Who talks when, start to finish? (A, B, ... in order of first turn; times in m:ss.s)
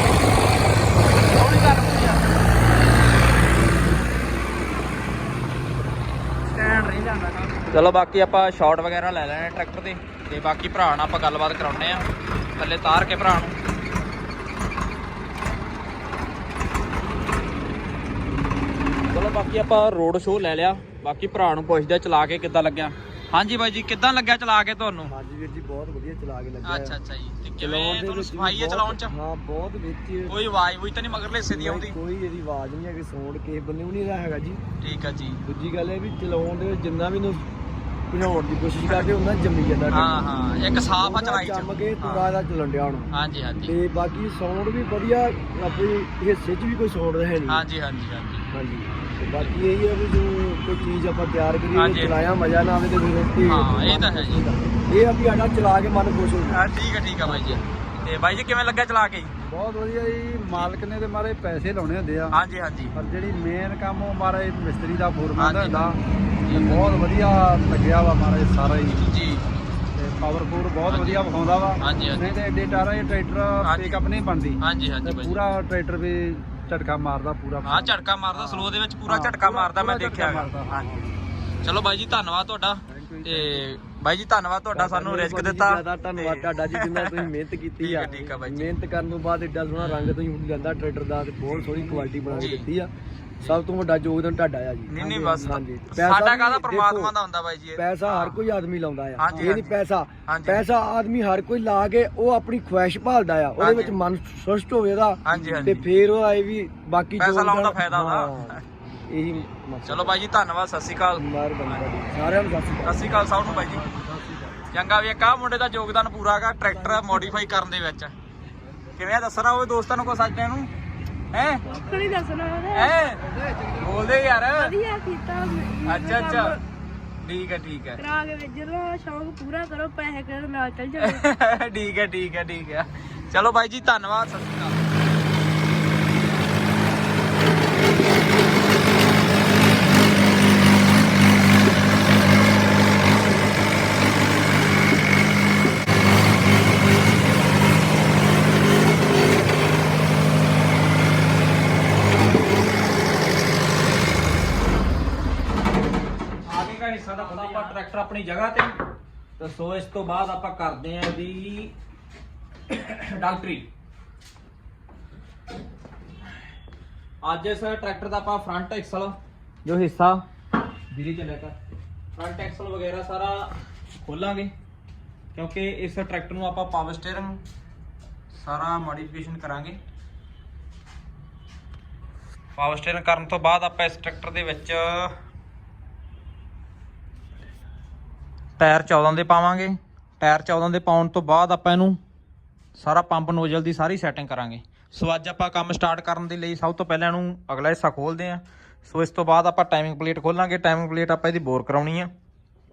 0:01.2-0:02.3 A
0:06.4-0:13.6 A
0:19.1-0:25.1 A
0:25.1-0:27.0 B
0:26.6-0:29.1 A
0:27.6-0:30.4 B
0:30.3-0:32.0 A
0:31.5-0:34.6 B
0:34.8-0:35.4 A
0:35.5-0:37.5 B
0:38.1-0:40.3 B
0:39.9-0:42.3 A
0:41.0-0:43.1 B
0:43.1-0:43.7 A
0:43.6-0:47.6 B
0:47.5-0:48.5 A
0:48.5-0:56.6 B
0:51.7-0:52.1 A
0:53.5-0:54.4 A
0:56.5-0:59.3 A
0:57.2-0:57.6 B
0:59.4-1:02.3 C
1:02.3-1:02.9 A
1:03.0-1:06.0 C
1:05.4-1:06.9 A
1:06.5-1:09.1 C
1:09.0-1:09.4 A
1:09.9-1:21.0 C
1:10.9-1:11.2 A
1:11.8-1:12.4 A
1:13.6-1:14.0 A
1:14.6-1:15.4 A
1:17.6-1:21.1 A
1:21.6-1:27.3 A
1:22.9-1:23.6 B
1:24.7-1:32.9 B
1:27.8-1:28.7 A
1:29.8-1:30.2 A
1:31.6-1:32.5 C
1:32.4-1:32.7 A
1:33.4-1:37.1 B
1:34.9-1:38.4 A
1:37.8-1:50.2 B
1:39.2-1:40.6 A
1:43.6-1:44.0 A
1:45.2-1:45.9 A
1:47.2-1:48.7 A
1:49.3-1:51.8 A
1:51.2-1:54.4 B
1:52.8-1:53.9 A
1:53.6-1:54.0 C
1:54.7-1:58.1 A
1:58.9-2:00.7 A
2:01.3-2:01.7 A
2:01.7-2:03.0 D
2:02.7-2:04.8 A
2:03.3-2:04.2 C
2:04.4-2:06.6 D
2:05.8-2:06.6 A
2:07.2-2:08.0 A
2:08.0-2:11.2 D
2:11.0-2:14.8 A
2:36.5-2:38.8 A
2:39.4-2:41.7 A
2:42.7-2:43.7 A
2:47.2-2:50.2 A
2:50.9-2:51.6 A
2:52.2-2:54.5 A
2:55.3-2:57.4 A
2:58.3-2:59.8 A
3:02.6-3:05.1 A
3:08.6-3:12.0 A
3:12.8-3:22.1 A